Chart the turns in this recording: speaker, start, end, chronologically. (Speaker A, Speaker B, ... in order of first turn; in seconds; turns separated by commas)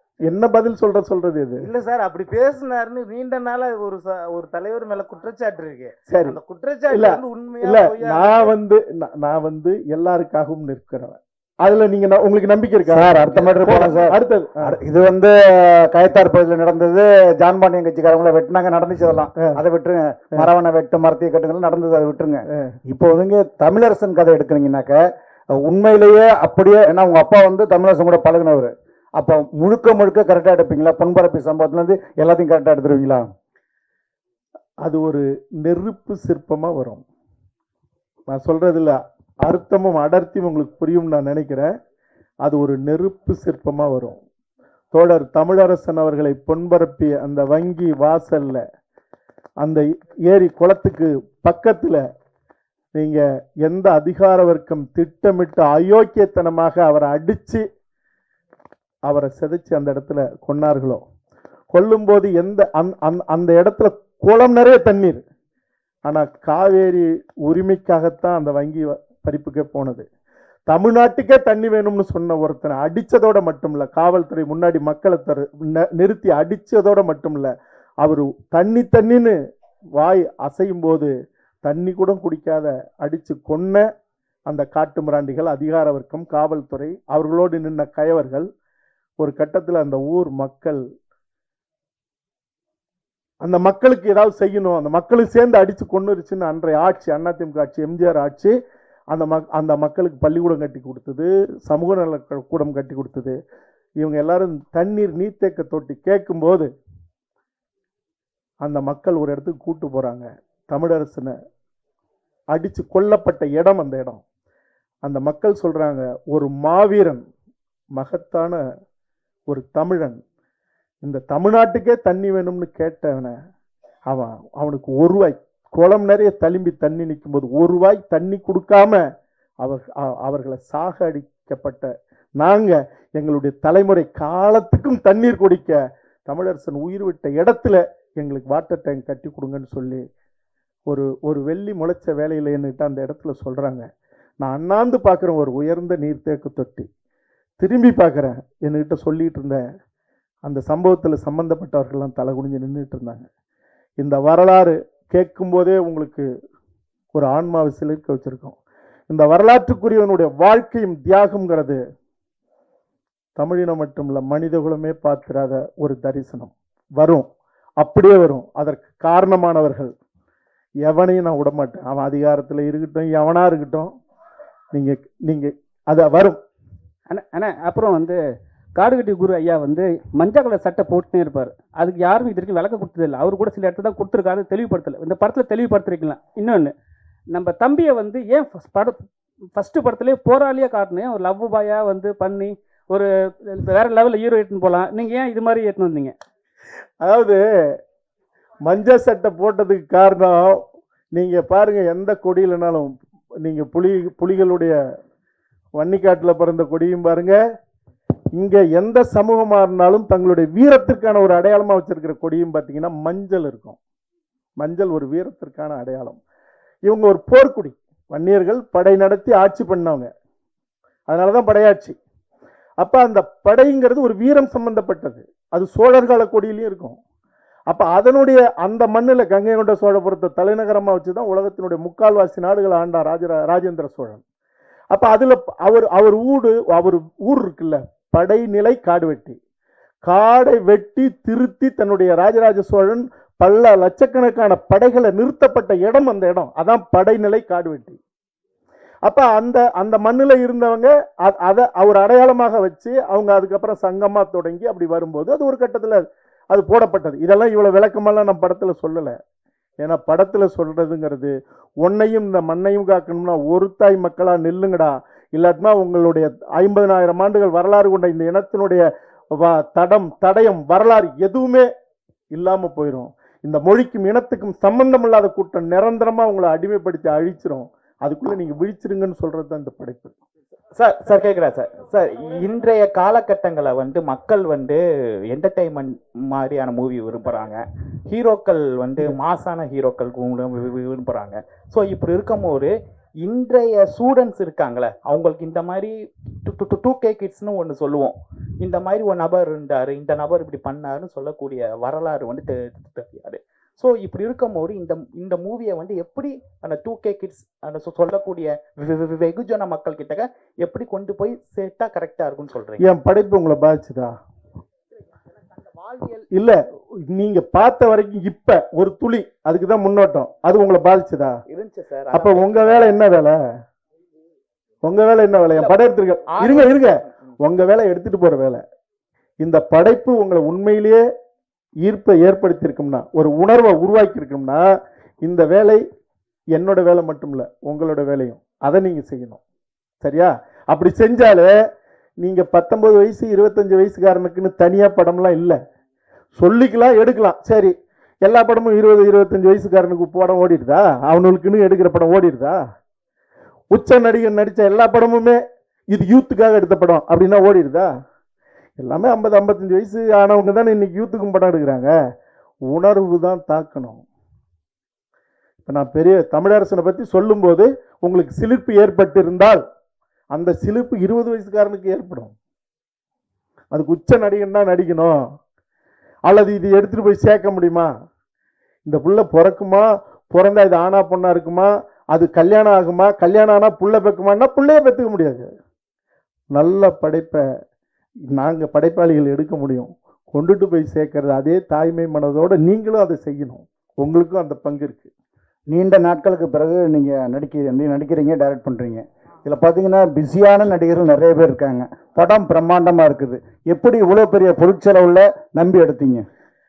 Speaker A: 0.3-1.6, Speaker B: 1.6-8.5, Speaker A: 6.1-6.4, Speaker A: 6.9-14.8, Speaker C: 12.9-33.3, Speaker A: 34.8-37.0, Speaker A: 38.3-41.7, Speaker A: 42.4-44.2, Speaker A: 44.9-48.6, Speaker A: 49.6-52.0, Speaker A: 52.9-57.6, Speaker A: 59.1-61.0, Speaker A: 61.7-65.2, Speaker A: 66.0-70.1, Speaker A: 70.7-77.5, Speaker A: 78.0-79.3, Speaker A: 80.0-81.1, Speaker A: 81.6-83.8, Speaker A: 84.5-88.5, Speaker A: 89.2-90.8, Speaker A: 93.4-98.5, Speaker A: 99.1-103.4, Speaker A: 104.0-106.7, Speaker A: 108.6-111.3, Speaker A: 112.5-114.2, Speaker A: 115.0-117.2, Speaker A: 118.0-118.6, Speaker A: 119.5-120.2, Speaker A: 121.0-123.3, Speaker A: 124.1-129.0, Speaker A: 129.6-140.0, Speaker A: 140.9-143.8, Speaker A: 144.4-146.9, Speaker A: 147.6-149.6, Speaker A: 150.4-153.2, Speaker A: 154.0-156.3, Speaker A: 157.1-158.6, Speaker A: 159.1-161.8, Speaker A: 163.4-167.3, Speaker A: 167.8-169.9, Speaker A: 170.8-173.9, Speaker A: 174.7-176.4, Speaker D: 177.1-178.2, Speaker D: 178.8-186.7, Speaker D: 187.3-196.1, Speaker A: 197.0-197.4, Speaker A: 198.7-200.6, Speaker A: 201.1-204.8, Speaker A: 205.8-207.4, Speaker A: 208.3-213.8, Speaker A: 214.6-216.2, Speaker A: 216.8-220.1, Speaker A: 221.1-222.0, Speaker A: 222.8-227.0, Speaker A: 227.7-234.2, Speaker A: 234.9-239.4, Speaker A: 240.1-248.0, Speaker A: 249.0-259.2, Speaker A: 259.8-268.9, Speaker A: 269.4-271.7, Speaker A: 272.3-280.1, Speaker E: 280.8-284.8, Speaker E: 285.3-292.7, Speaker E: 293.2-312.8, Speaker A: 312.8-314.1, Speaker E: 315.9-316.2, Speaker A: 316.3-316.6, Speaker A: 317.1-321.4, Speaker E: 321.5-323.0, Speaker A: 322.1-323.4, Speaker A: 324.8-328.6, Speaker E: 326.4-326.6, Speaker A: 329.4-331.0, Speaker A: 331.8-334.6, Speaker A: 335.2-335.8, Speaker A: 336.5-339.4, Speaker A: 340.0-341.5, Speaker A: 342.2-345.6, Speaker A: 346.3-347.7, Speaker A: 348.2-352.6, Speaker A: 353.7-355.4, Speaker A: 355.9-357.9, Speaker A: 358.8-361.9, Speaker A: 362.7-364.0, Speaker A: 365.6-369.6, Speaker A: 370.3-372.3, Speaker A: 373.7-375.2, Speaker A: 376.3-377.9, Speaker A: 378.9-385.5, Speaker A: 386.5-387.4, Speaker A: 388.3-395.1, Speaker C: 395.7-406.2